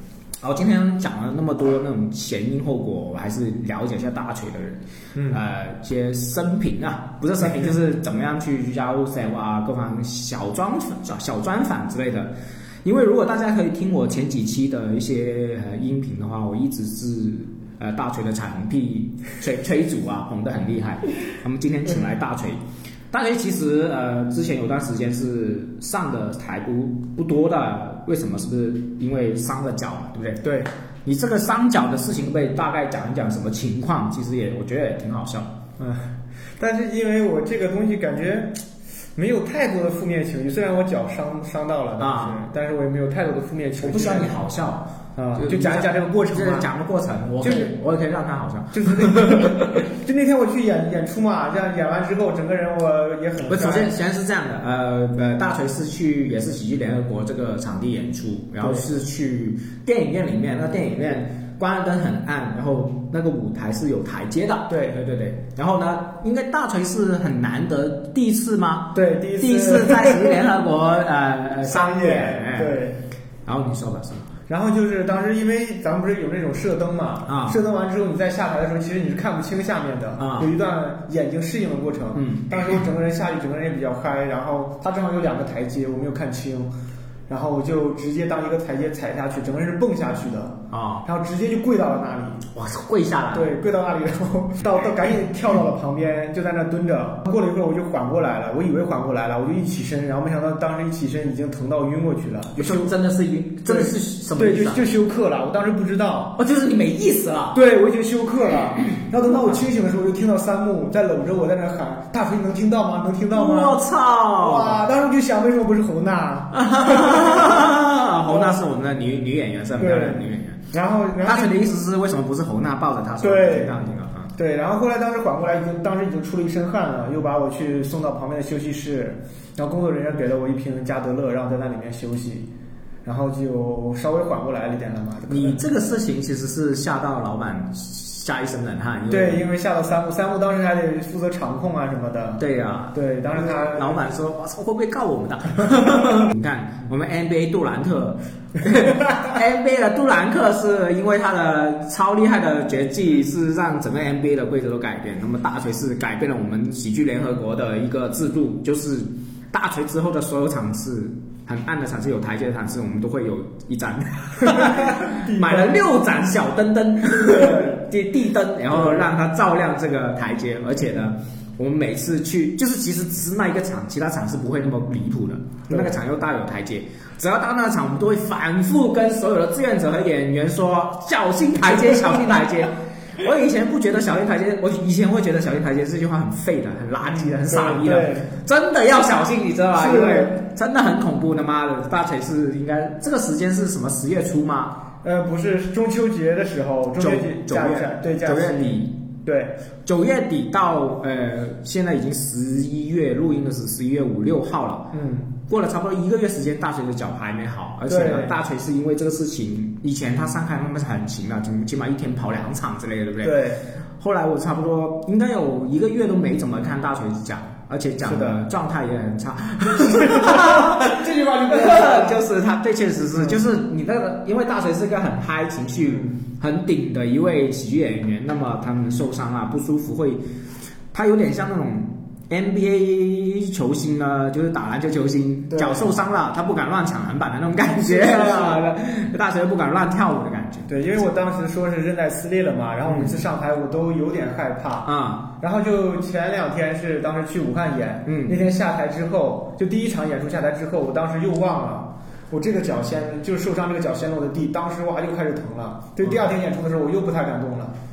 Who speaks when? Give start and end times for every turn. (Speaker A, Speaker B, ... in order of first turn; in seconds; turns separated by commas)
Speaker A: 0.4-22.6, Speaker A: 23.1-30.4, Speaker B: 30.4-30.7, Speaker A: 31.0-35.5, Speaker B: 35.8-38.6, Speaker B: 39.1-44.4, Speaker A: 42.0-42.4, Speaker A: 43.8-49.8, Speaker B: 45.2-46.7, Speaker B: 47.4-47.7, Speaker B: 48.7-53.9, Speaker A: 53.5-72.8, Speaker B: 64.7-65.0, Speaker B: 68.9-70.4, Speaker B: 71.6-73.0, Speaker A: 73.5-74.3, Speaker B: 74.5-86.7, Speaker A: 77.3-77.6, Speaker A: 80.2-80.5, Speaker A: 82.1-82.8, Speaker B: 87.3-92.4, Speaker A: 90.7-91.0, Speaker A: 92.5-93.5, Speaker B: 93.3-102.9, Speaker A: 102.5-104.8, Speaker B: 103.7-106.3, Speaker A: 106.4-107.6, Speaker B: 107.5-113.8, Speaker A: 113.3-114.8, Speaker B: 114.4-118.6, Speaker A: 116.5-120.6, Speaker B: 119.8-121.6, Speaker A: 121.2-124.3, Speaker B: 123.2-123.8, Speaker B: 124.3-132.5, Speaker B: 133.0-135.6, Speaker A: 135.3-139.4, Speaker B: 139.1-142.4, Speaker A: 142.4-194.8, Speaker B: 142.9-144.0, Speaker B: 164.4-165.8, Speaker B: 167.2-167.7, Speaker B: 168.7-169.1, Speaker B: 175.7-176.0, Speaker B: 187.0-188.3, Speaker B: 189.7-190.3, Speaker B: 195.0-198.7, Speaker A: 197.0-199.0, Speaker B: 199.2-199.5, Speaker A: 199.8-204.9, Speaker B: 204.9-205.3, Speaker A: 205.5-230.2, Speaker B: 207.9-208.3, Speaker B: 213.2-213.6, Speaker B: 218.0-218.4, Speaker B: 219.7-222.2, Speaker B: 223.1-223.4, Speaker B: 225.8-226.1, Speaker A: 230.9-240.7, Speaker B: 235.5-235.9, Speaker B: 237.6-238.6, Speaker B: 240.7-244.9, Speaker A: 242.9-243.2, Speaker A: 244.8-245.3, Speaker B: 245.4-257.7, Speaker A: 248.1-248.4, Speaker A: 256.0-256.3